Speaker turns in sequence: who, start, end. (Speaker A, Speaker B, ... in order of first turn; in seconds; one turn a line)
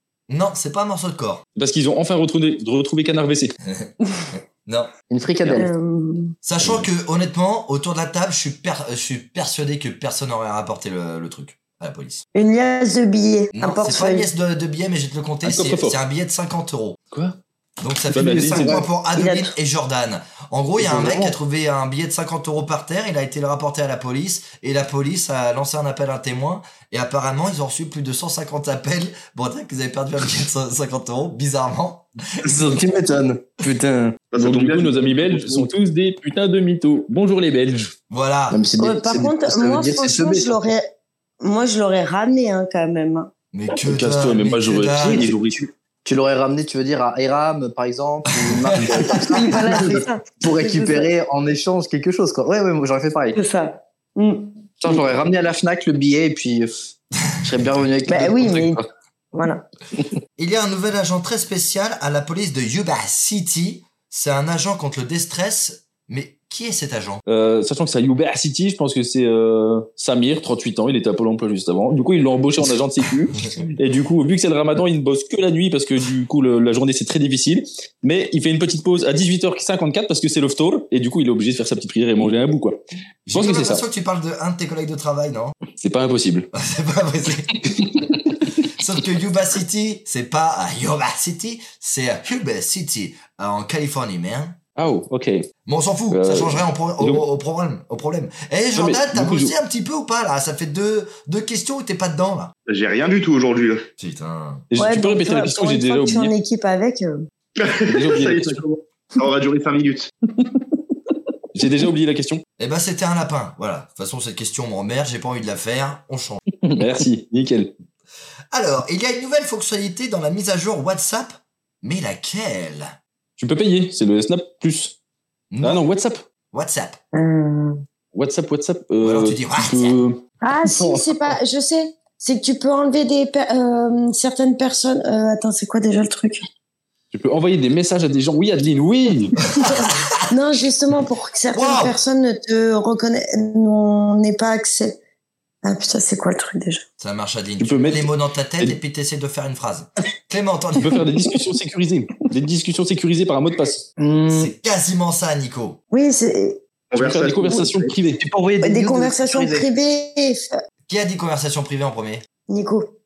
Speaker A: 0.3-1.4
Speaker B: 1.6-3.5
Speaker A: 3.6-4.9
Speaker C: 5.1-5.7
Speaker D: 5.5-6.3
Speaker A: 6.4-12.2
Speaker D: 12.3-14.3
Speaker A: 13.5-17.0
Speaker B: 15.4-16.0
Speaker A: 17.8-32.8
Speaker B: 18.1-18.8
Speaker D: 19.1-19.5
Speaker B: 20.8-21.3
Speaker C: 32.4-34.2
Speaker E: 34.3-35.6
Speaker B: 34.4-37.9
Speaker A: 38.1-38.6
Speaker C: 38.5-40.6
Speaker D: 38.8-40.9
Speaker D: 41.4-43.3
Speaker A: 43.5-45.3
Speaker B: 43.8-45.6
Speaker C: 46.0-53.4
Speaker A: 48.4-50.0
Speaker D: 49.1-51.1
Speaker D: 53.3-54.6
Speaker C: 54.8-56.7
Speaker C: 57.4-58.9
Speaker D: 58.0-58.8
Speaker D: 59.3-59.6
Speaker A: 60.4-67.2
Speaker B: 67.3-82.8
Speaker A: 83.3-85.5
Speaker B: 83.3-83.8
Speaker B: 85.7-86.5
Speaker A: 86.5-87.9
Speaker A: 88.6-94.6
Speaker B: 94.8-95.4
Speaker A: 95.7-102.5
Speaker B: 96.1-97.2
Speaker B: 98.7-99.5
Speaker E: 102.7-103.8
Speaker A: 104.0-104.6
Speaker B: 104.7-106.3
Speaker D: 104.8-107.2
Speaker E: 107.6-110.1
Speaker B: 107.9-108.6
Speaker B: 111.5-112.4
Speaker A: 112.6-116.4
Speaker B: 116.8-117.7
Speaker A: 118.5-123.0
Speaker B: 123.4-125.0
Speaker A: 125.5-125.8
Speaker B: 125.6-126.2
Speaker A: 126.5-127.0
Speaker D: 127.1-127.8
Speaker B: 128.1-130.2
Speaker A: 129.0-130.0
Speaker D: 130.4-136.4
Speaker B: 137.1-139.5
Speaker A: 139.5-140.1
Speaker D: 139.6-145.0
Speaker A: 141.5-142.0
Speaker D: 145.6-146.8
Speaker A: 147.0-151.0
Speaker B: 147.6-148.1
Speaker B: 150.8-153.9
Speaker C: 154.0-154.5
Speaker A: 154.3-155.8
Speaker D: 155.9-156.6
Speaker E: 156.9-157.9
Speaker B: 156.9-158.2
Speaker C: 158.2-159.7
Speaker D: 158.6-160.6
Speaker A: 160.9-162.2
Speaker D: 162.5-162.9